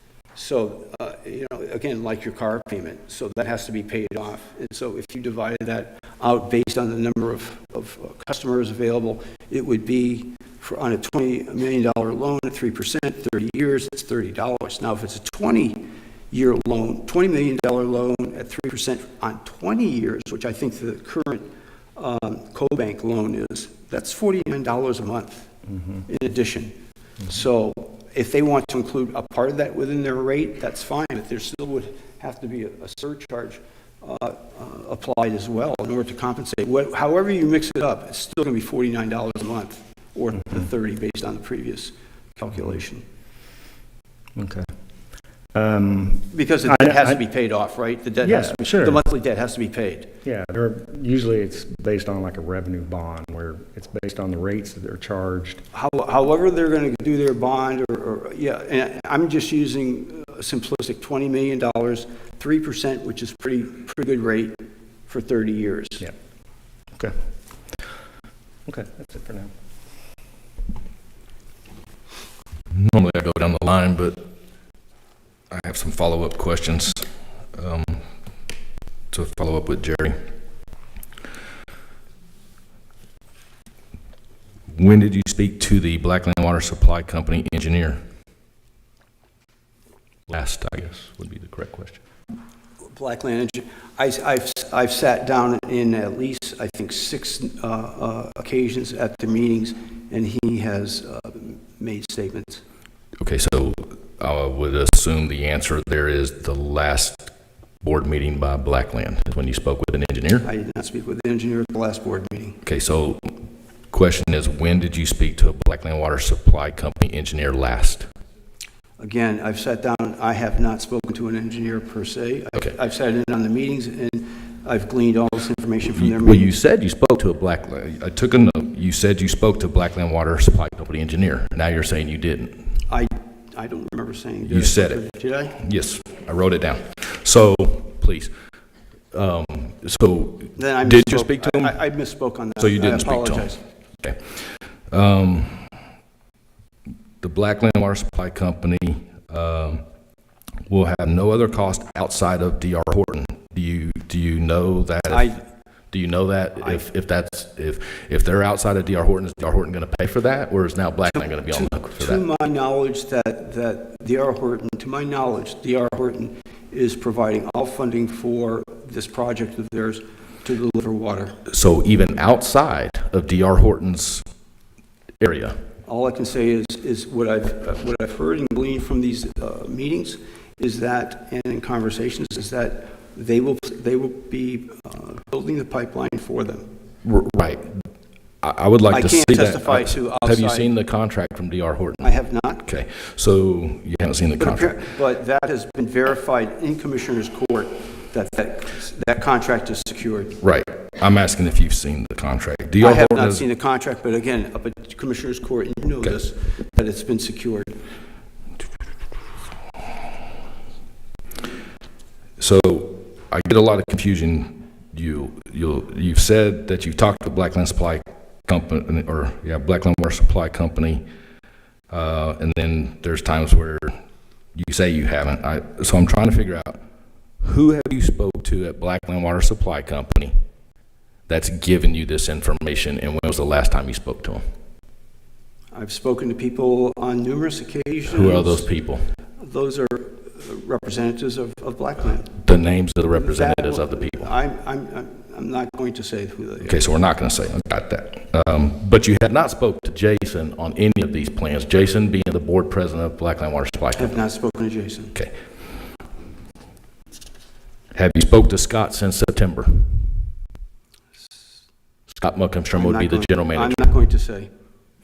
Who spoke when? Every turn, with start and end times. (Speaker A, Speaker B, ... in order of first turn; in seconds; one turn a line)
Speaker A: 0.3-43.0
Speaker B: 44.4-44.7
Speaker B: 45.5-47.1
Speaker A: 46.3-50.1
Speaker B: 48.2-49.0
Speaker B: 50.2-55.6
Speaker A: 55.7-66.1
Speaker B: 68.7-69.5
Speaker C: 72.7-74.2
Speaker C: 75.5-78.0
Speaker C: 79.1-80.2
Speaker C: 84.7-88.0
Speaker C: 90.3-92.0
Speaker A: 92.9-102.6
Speaker C: 103.2-107.3
Speaker C: 107.8-110.5
Speaker A: 110.4-112.6
Speaker C: 112.6-113.3
Speaker C: 113.9-118.1
Speaker A: 119.0-126.5
Speaker C: 125.9-132.6
Speaker A: 132.9-135.6
Speaker C: 134.4-135.0
Speaker C: 135.5-138.3
Speaker C: 139.1-141.8
Speaker A: 140.6-143.6
Speaker C: 142.6-144.3
Speaker C: 144.9-145.7
Speaker C: 147.2-149.8
Speaker C: 150.7-155.3
Speaker A: 155.1-155.4
Speaker C: 155.9-162.2
Speaker A: 161.1-171.4
Speaker C: 171.5-174.2
Speaker C: 175.2-175.6
Speaker A: 175.9-186.7
Speaker C: 187.0-187.7
Speaker C: 188.4-194.8
Speaker A: 188.9-190.7
Speaker A: 192.0-192.6
Speaker A: 194.4-200.4
Speaker C: 200.4-203.4
Speaker A: 202.8-207.8
Speaker C: 212.4-221.0
Speaker C: 221.9-223.9
Speaker C: 224.5-226.8
Speaker C: 227.4-230.3
Speaker C: 231.3-234.4
Speaker A: 235.7-238.7
Speaker C: 238.1-239.0
Speaker A: 239.4-242.3
Speaker C: 242.3-244.3
Speaker A: 243.1-246.9
Speaker C: 246.6-254.2
Speaker A: 253.9-255.2
Speaker C: 257.9-260.1
Speaker C: 262.1-263.9
Speaker A: 262.7-264.5